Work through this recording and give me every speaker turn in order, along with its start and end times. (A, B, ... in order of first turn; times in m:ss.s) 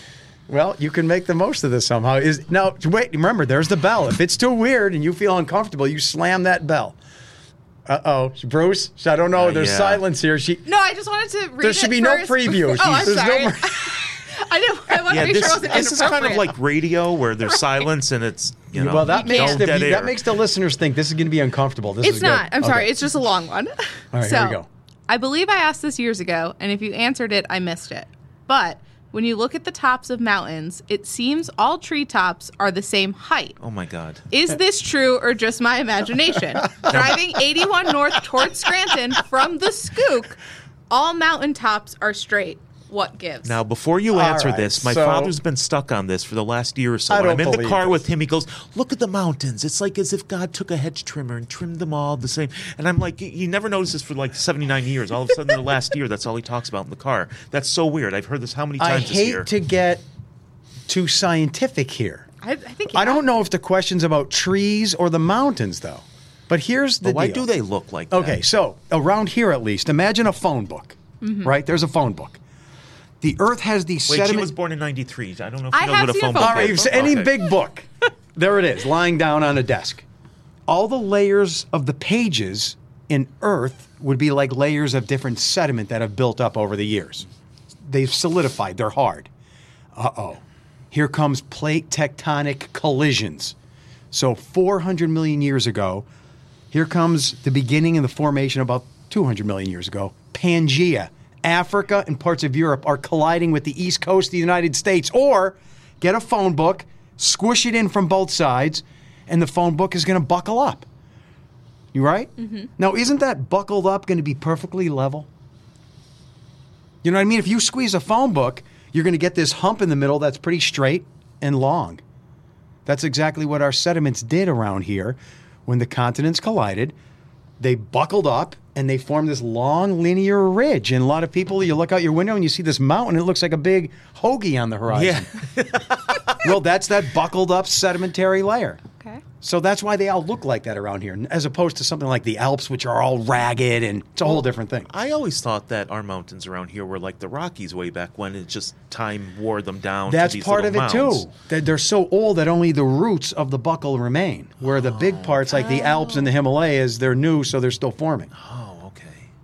0:00.5-0:07.0 A
0:07.8-0:10.6 A
0:09.4-0:10.0 B
0:10.6-0:16.6 C
0:11.6-0:14.1 A
0:15.1-0:20.2 B
0:15.2-0:15.8 A
0:17.4-0:17.8 C
0:18.7-0:23.0 A
0:19.0-0:19.7 C
0:22.0-0:33.6 C
0:24.1-0:24.7 A
0:33.6-0:34.2 B
0:34.3-0:40.4 C
0:36.9-0:37.2 B
0:40.9-0:43.6 C
0:43.4-0:59.5 B
0:44.1-0:45.4 A
0:47.1-0:48.0 A
0:58.8-1:00.0 A
1:00.9-1:02.3 A
1:02.4-1:03.2 C
1:02.9-1:07.5 A
1:07.0-1:08.4 B
1:08.1-1:12.4 A
1:11.2-1:11.5 C
1:13.2-1:14.5 A
1:14.1-1:17.4 B
1:15.7-1:17.2 C
1:16.4-1:20.0 A
1:20.7-1:27.2 A
1:27.8-1:29.3 A
1:29.9-1:33.5 A
1:34.1-1:36.0 A
1:36.7-1:50.8 A
1:51.9-1:55.3 A
1:52.4-1:52.7 C
1:57.0-2:02.0 A
2:02.8-2:06.9 A
2:07.6-2:15.3 A
2:14.9-2:16.5 B
2:16.4-2:18.8 A
2:19.4-2:24.9 A
2:24.2-2:31.2 B
2:30.1-2:38.3 A
2:34.6-2:35.6 B
2:35.5-2:36.3 C
2:38.3-2:39.3 B